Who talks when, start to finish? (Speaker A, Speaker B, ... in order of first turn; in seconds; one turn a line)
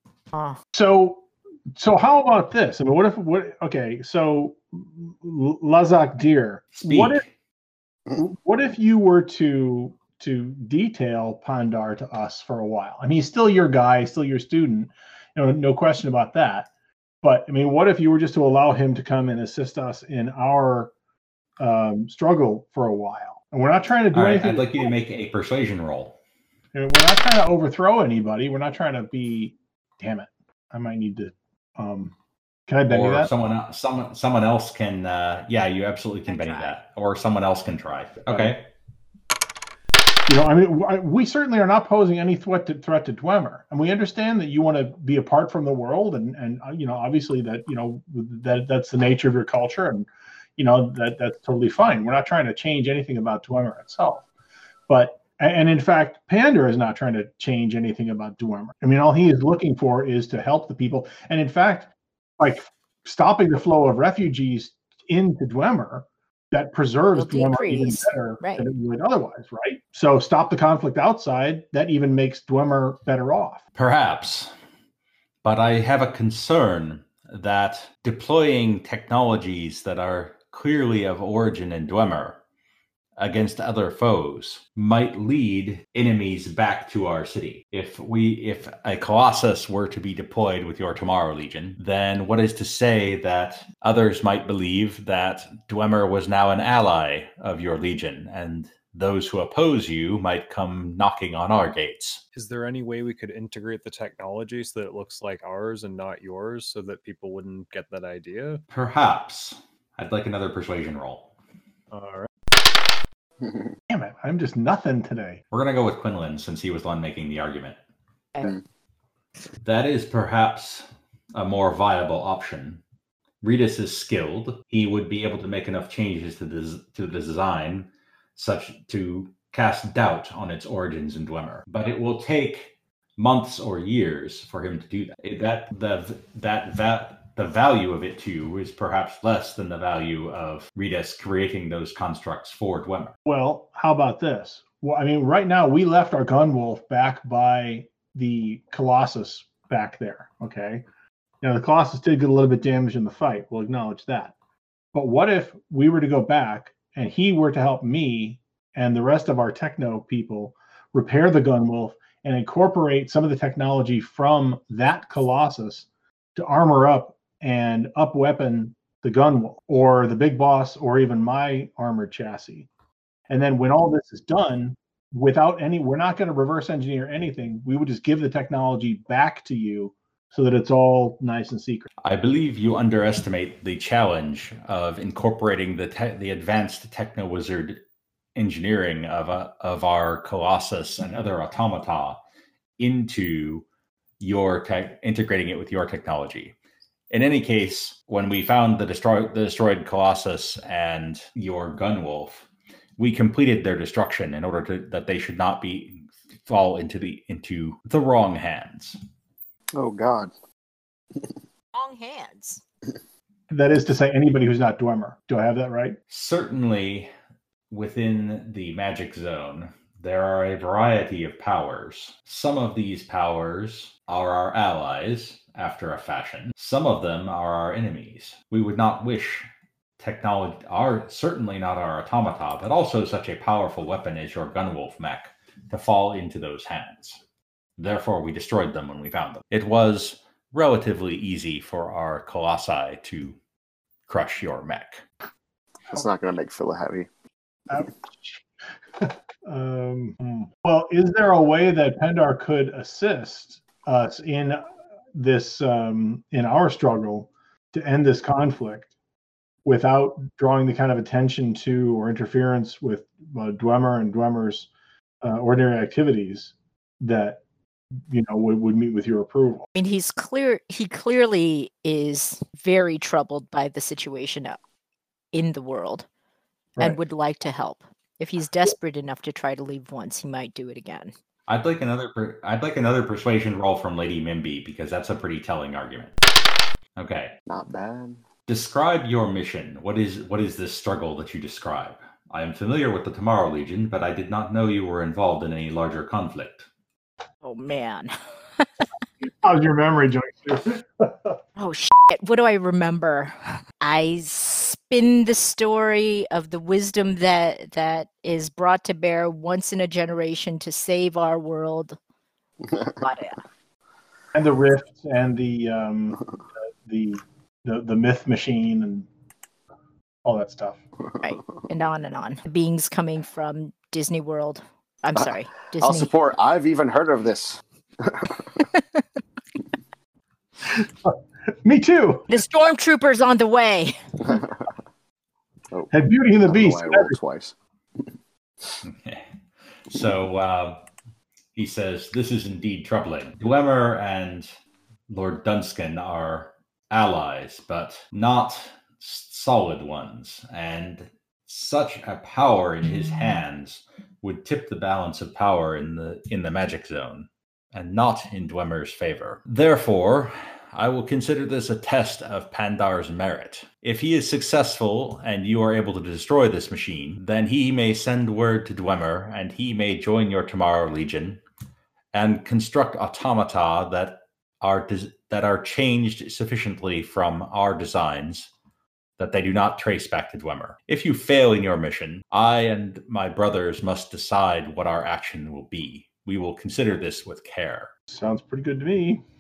Speaker A: 0.3-0.6
Speaker B: 0.7-7.2
Speaker C: 6.8-7.3
Speaker B: 8.2-16.7
Speaker B: 17.2-20.9
Speaker B: 21.6-24.9
Speaker C: 24.1-26.2
Speaker B: 26.8-32.1
Speaker B: 32.7-33.3
Speaker C: 32.9-38.7
Speaker A: 36.3-36.7
Speaker B: 40.3-54.3
Speaker B: 54.9-73.6
Speaker A: 67.2-68.6
Speaker C: 73.8-74.5
Speaker C: 75.4-82.4
Speaker C: 83.2-102.2
Speaker D: 102.3-108.6
Speaker C: 108.7-111.3
Speaker D: 111.9-112.3
Speaker E: 113.4-113.7
Speaker B: 113.9-115.4
Speaker C: 115.5-117.8
Speaker C: 119.6-122.8
Speaker C: 123.4-143.1
Speaker B: 143.3-150.8
Speaker B: 151.4-154.3
Speaker B: 154.9-172.7
Speaker B: 173.3-181.9
Speaker C: 182.0-187.8
Speaker C: 188.3-192.2
Speaker C: 192.8-193.7
Speaker C: 194.2-196.6
Speaker C: 197.1-202.5
Speaker C: 203.0-209.0
Speaker E: 209.7-210.3
Speaker A: 211.7-212.6
Speaker B: 213.5-216.0
Speaker C: 216.1-217.1
Speaker C: 217.7-229.5
Speaker C: 230.0-237.2
Speaker C: 237.8-243.4
Speaker C: 244.1-245.0
Speaker E: 245.9-247.1
Speaker B: 247.7-248.4
Speaker B: 249.0-254.6
Speaker B: 255.2-258.9
Speaker B: 259.6-264.7
Speaker B: 265.2-267.4
Speaker B: 268.1-269.7
Speaker A: 269.8-274.6
Speaker A: 275.3-276.1
Speaker A: 276.8-281.1
Speaker C: 281.5-286.1
Speaker C: 287.0-287.4
Speaker E: 287.5-288.2
Speaker C: 288.5-296.7
Speaker A: 297.4-298.8
Speaker B: 299.2-301.4
Speaker A: 301.6-312.0
Speaker A: 313.0-313.4
Speaker B: 314.3-316.2
Speaker B: 316.9-319.1
Speaker B: 320.2-320.8
Speaker A: 321.2-326.1
Speaker E: 325.2-328.4
Speaker B: 330.7-332.3
Speaker A: 332.3-334.0
Speaker E: 334.2-334.7
Speaker B: 335.9-337.1
Speaker E: 336.4-337.5
Speaker C: 338.8-339.2
Speaker C: 339.9-340.8
Speaker C: 341.6-344.5
Speaker C: 345.1-371.4
Speaker C: 372.1-378.5
Speaker C: 379.2-387.9
Speaker B: 388.1-389.2